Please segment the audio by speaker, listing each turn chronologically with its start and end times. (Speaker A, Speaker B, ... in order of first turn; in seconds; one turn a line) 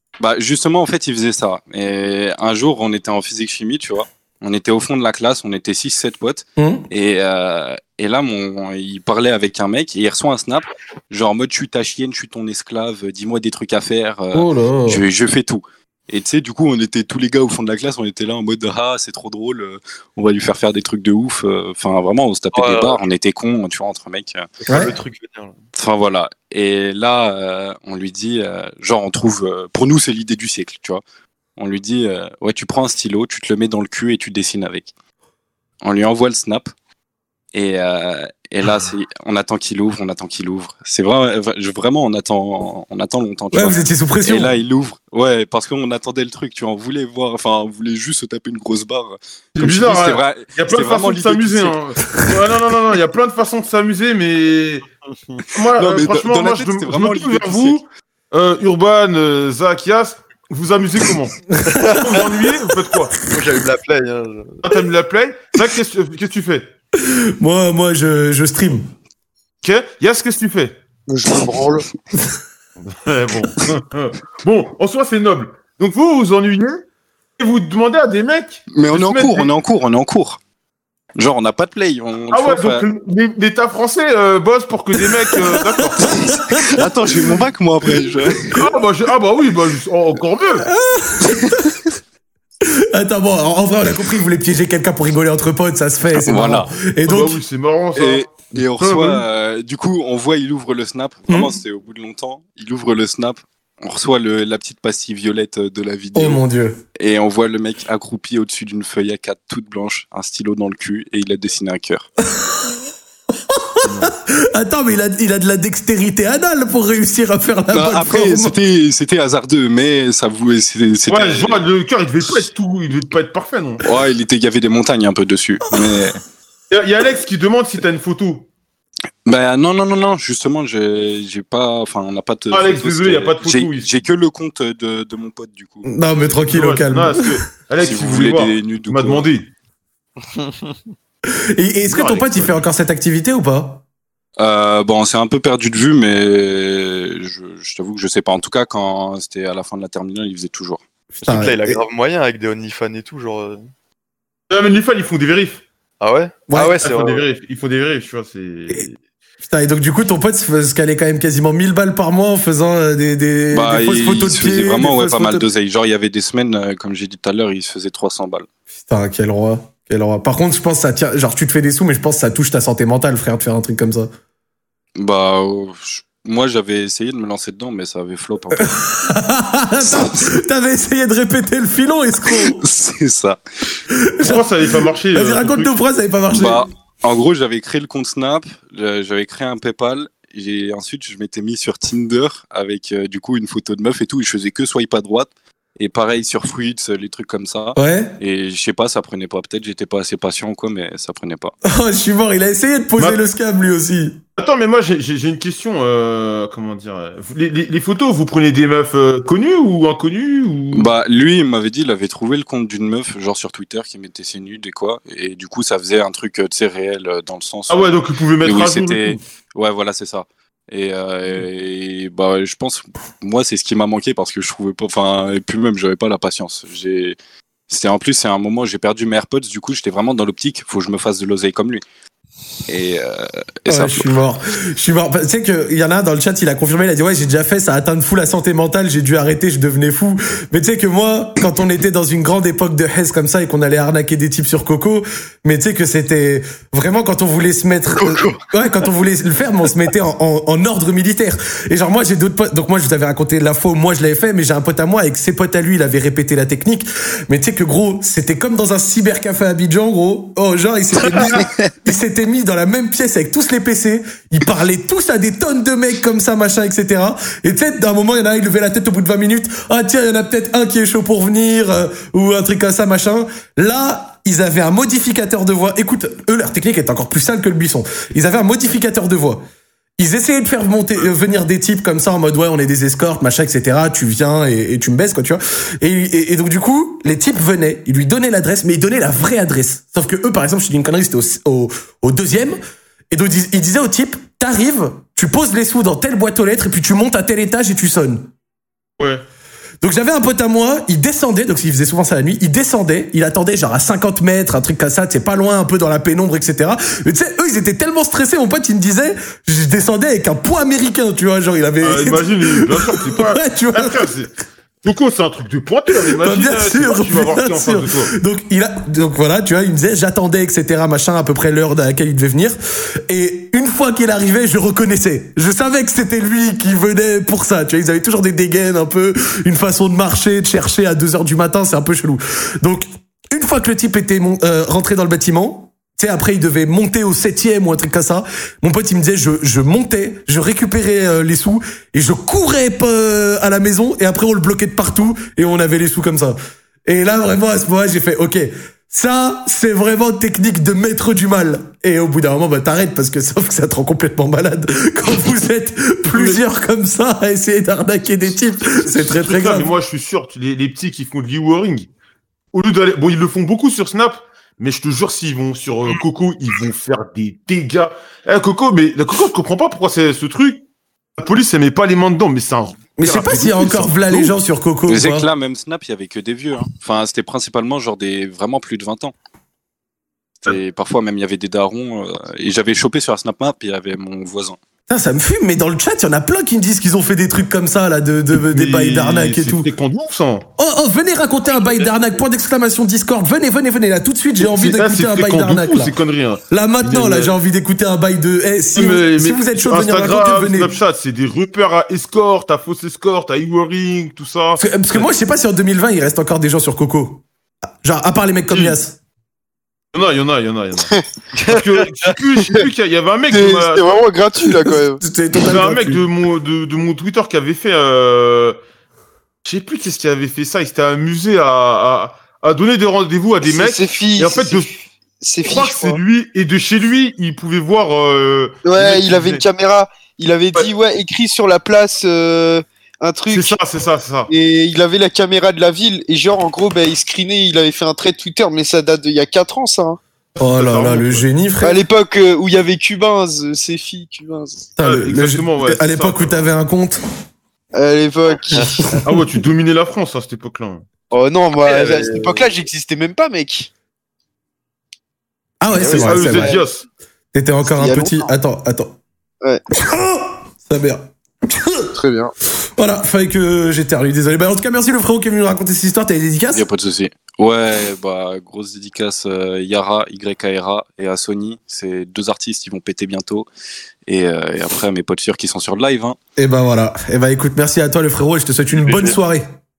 Speaker A: 0.2-24.5
Speaker B: 6.6-6.9
Speaker B: 14.3-15.0
Speaker C: 22.5-23.0
Speaker C: 24.6-25.6
Speaker B: 24.7-24.9
Speaker A: 25.7-31.0
Speaker A: 31.6-34.9
Speaker A: 35.8-36.7
Speaker A: 37.5-51.7
Speaker B: 43.5-44.5
Speaker D: 49.5-54.9
Speaker D: 55.5-61.3
Speaker A: 55.8-57.8
Speaker B: 61.5-62.0
Speaker D: 61.9-63.1
Speaker C: 63.3-64.6
Speaker D: 64.6-66.7
Speaker B: 67.0-68.9
Speaker D: 69.6-70.8
Speaker E: 71.1-71.8
Speaker D: 72.8-76.8
Speaker D: 77.4-79.5
Speaker A: 78.7-80.4
Speaker A: 81.2-82.8
Speaker D: 82.3-86.4
Speaker B: 86.1-86.6
Speaker A: 86.7-88.6
Speaker E: 86.8-88.1
Speaker D: 88.5-90.7
Speaker B: 90.6-91.8
Speaker B: 92.9-97.4
Speaker A: 96.1-96.7
Speaker D: 97.0-99.2
Speaker A: 98.0-106.4
Speaker B: 101.3-101.5
Speaker B: 106.1-106.8
Speaker A: 107.0-112.1
Speaker B: 112.3-112.8
Speaker B: 113.5-118.5
Speaker D: 113.8-114.1
Speaker A: 117.7-121.6
Speaker D: 121.1-123.8
Speaker A: 123.8-126.2
Speaker D: 126.7-128.5
Speaker A: 129.2-135.9
Speaker D: 132.5-133.9
Speaker B: 135.8-137.3
Speaker D: 136.4-139.5
Speaker A: 137.8-139.3
Speaker B: 141.6-143.8
Speaker D: 141.9-142.6
Speaker A: 144.4-150.8
Speaker B: 151.1-151.8
Speaker C: 151.2-153.7
Speaker D: 154.5-155.6
Speaker C: 156.0-157.2
Speaker B: 156.5-156.8
Speaker D: 156.8-158.9
Speaker B: 159.4-165.5
Speaker A: 163.5-168.5
Speaker B: 168.8-174.1
Speaker A: 175.0-178.8
Speaker B: 178.5-182.6
Speaker A: 179.8-180.3
Speaker A: 182.3-183.4
Speaker B: 183.9-184.4
Speaker D: 184.2-185.7
Speaker B: 185.1-186.6
Speaker A: 186.3-201.5
Speaker B: 197.8-198.2
Speaker B: 201.6-204.2
Speaker D: 204.4-210.9
Speaker A: 210.7-227.2
Speaker D: 217.7-219.2
Speaker A: 227.7-231.8
Speaker A: 232.7-234.1
Speaker B: 233.7-279.4
Speaker C: 247.9-248.4
Speaker B: 280.0-292.6
Speaker B: 293.1-298.3
Speaker D: 299.0-299.2
Speaker B: 299.8-314.1
Speaker D: 311.8-314.3
Speaker D: 314.8-318.1
Speaker B: 316.2-322.6
Speaker B: 323.1-359.7
Speaker D: 356.1-356.4
Speaker D: 358.6-361.9
Speaker D: 362.5-370.6
Speaker D: 371.2-374.4
Speaker B: 373.0-375.3
Speaker A: 374.9-379.1
Speaker A: 380.4-384.6
Speaker B: 384.9-389.7
Speaker D: 388.3-390.5
Speaker B: 390.6-395.9
Speaker D: 394.4-397.4
Speaker B: 396.5-400.7
Speaker D: 398.7-405.1
Speaker B: 404.6-407.2
Speaker B: 407.8-409.0
Speaker D: 408.5-408.8
Speaker D: 409.9-414.1
Speaker E: 413.3-415.0
Speaker B: 415.0-416.0
Speaker D: 415.4-418.6
Speaker D: 419.4-424.7
Speaker E: 423.4-426.0
Speaker D: 425.4-429.4
Speaker E: 428.6-433.6
Speaker D: 433.3-434.3
Speaker E: 434.3-440.0
Speaker D: 440.4-441.2
Speaker B: 440.4-441.8
Speaker E: 441.6-444.7
Speaker B: 444.8-447.0
Speaker D: 444.8-446.4
Speaker E: 447.7-448.9
Speaker C: 448.5-448.9
Speaker D: 449.0-450.9
Speaker E: 451.1-453.7
Speaker C: 451.6-452.5
Speaker B: 455.6-456.6
Speaker E: 455.7-456.6
Speaker D: 455.9-456.9
Speaker B: 457.3-458.9
Speaker E: 457.6-458.3
Speaker B: 459.7-461.9
Speaker E: 461.9-462.3
Speaker B: 462.8-466.6
Speaker A: 466.5-473.5
Speaker A: 474.1-476.2
Speaker B: 476.4-479.5